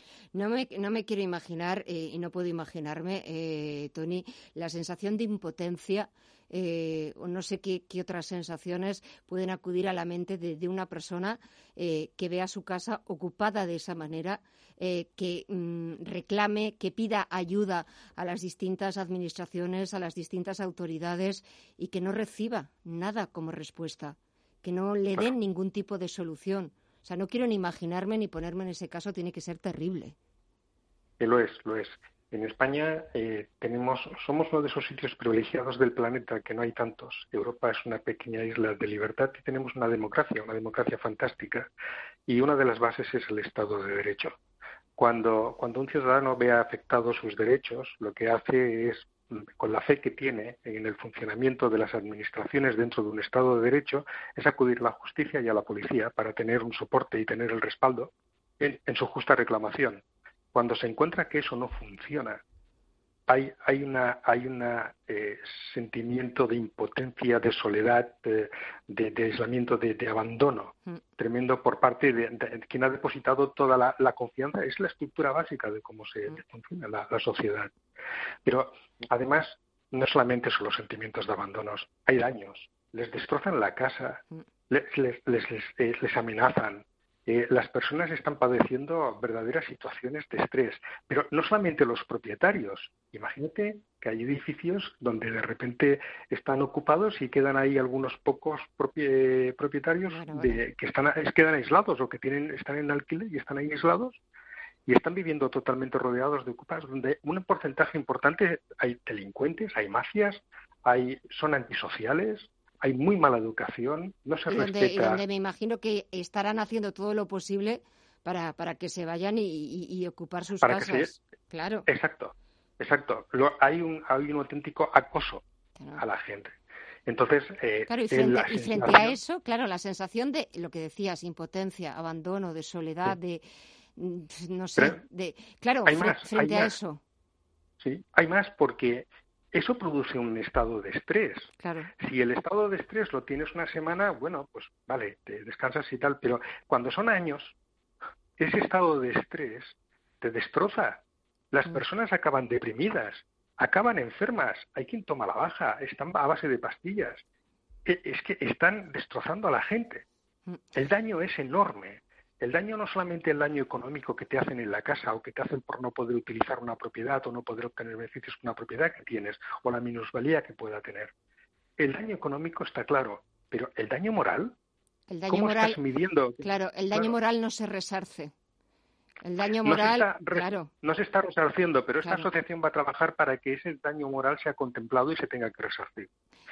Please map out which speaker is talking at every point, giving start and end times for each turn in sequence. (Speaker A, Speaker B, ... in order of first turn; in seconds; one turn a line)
Speaker A: 0.3-30.1
Speaker B: 31.2-41.7
Speaker B: 42.3-44.4
Speaker B: 45.0-62.4
Speaker B: 63.3-77.7
Speaker B: 78.5-104.2
Speaker A: 100.1-100.6
Speaker B: 104.9-115.2
Speaker A: 114.5-121.8
Speaker B: 120.6-121.1
Speaker B: 121.9-125.4
Speaker B: 126.0-126.5
Speaker B: 127.1-129.2
Speaker A: 127.9-133.4
Speaker A: 133.9-137.0
Speaker B: 135.8-136.7
Speaker B: 137.8-147.5
Speaker A: 141.6-141.9
Speaker B: 148.4-157.2
Speaker B: 157.8-160.1
Speaker B: 160.7-171.1
Speaker B: 171.8-174.5
Speaker A: 175.1-175.8
Speaker B: 175.3-177.2
Speaker A: 176.4-178.3
Speaker A: 179.2-180.7
Speaker B: 179.6-186.1
Speaker A: 182.0-182.3